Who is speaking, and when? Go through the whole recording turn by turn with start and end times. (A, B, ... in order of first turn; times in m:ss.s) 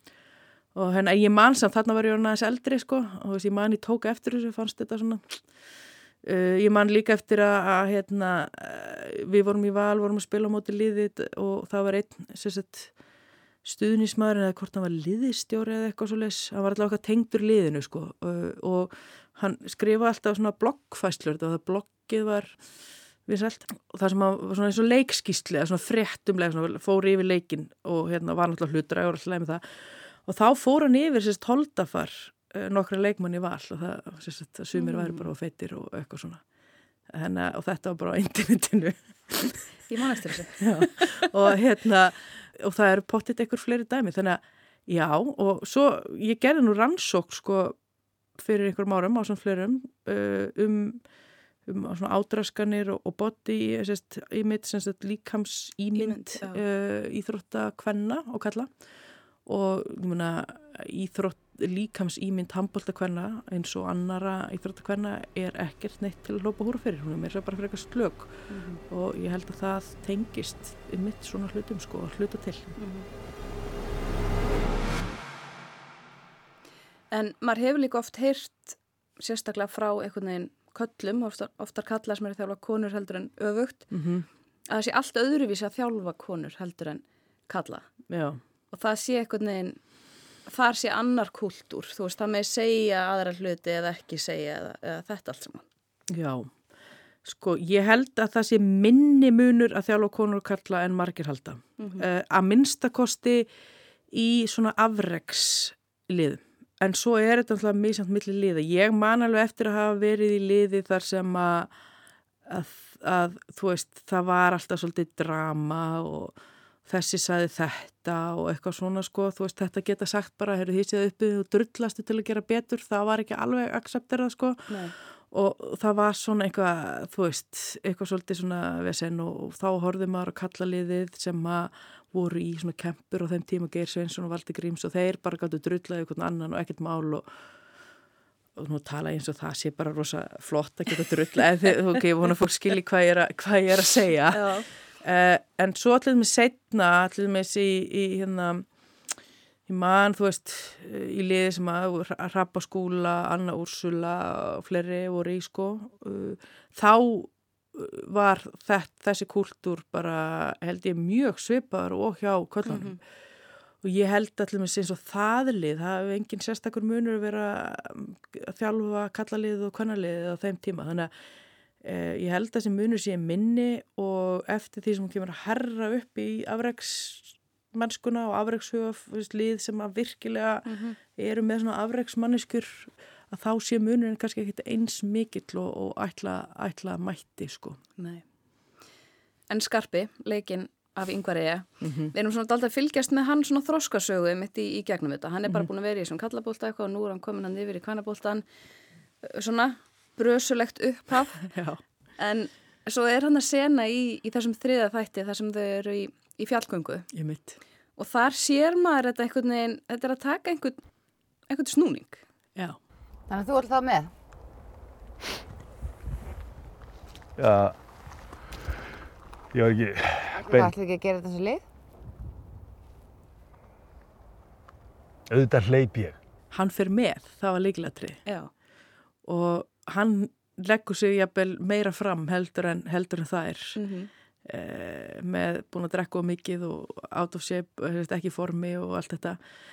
0:00.8-0:05.4 A
0:06.2-0:12.9 A
0:13.6-0:22.6 A
0:23.3-0:29.6 A
0:30.3-0:36.4 A
0:34.8-0:35.3 B
0:37.1-0:39.7 A
0:39.9-0:40.9 B
0:40.6-0:47.8 A
0:48.4-0:51.0 A
0:51.7-0:58.7 A
0:56.0-0:56.6 B
0:59.4-1:12.8 A
1:08.5-1:08.8 B
1:12.8-1:13.1 B
1:17.1-1:23.9 B
1:23.9-1:24.3 A
1:24.7-1:27.9 B
1:28.1-1:28.4 A
1:28.7-1:29.8 B
1:30.5-1:35.6 B
1:36.1-1:36.5 A
1:37.2-1:43.5 A
1:41.8-1:42.1 B
1:44.1-1:51.7 A
1:52.5-1:56.4 A
1:56.9-2:17.3 A
2:04.7-2:04.9 B
2:18.6-2:28.7 A
2:24.3-2:24.7 B
2:29.7-2:43.0 A
2:42.7-2:43.0 B
2:43.8-2:51.1 A
2:51.8-3:07.8 A
3:00.7-3:01.0 B
3:08.0-3:08.2 B
3:09.5-3:18.4 B
3:11.8-3:12.1 A
3:19.2-3:21.5 B
3:21.5-3:21.8 A
3:22.2-3:27.1 B
3:27.1-3:27.6 A
3:28.0-3:30.8 B
3:31.5-3:32.2 B
3:33.3-3:34.1 C
3:37.4-3:37.8 D
3:39.5-3:40.7 D
3:40.4-3:41.6 C
3:45.3-3:46.2 D
3:46.5-3:48.2 A
3:48.3-3:48.5 B
3:49.3-3:53.8 A
3:53.8-3:54.1 B
3:54.5-3:59.4 A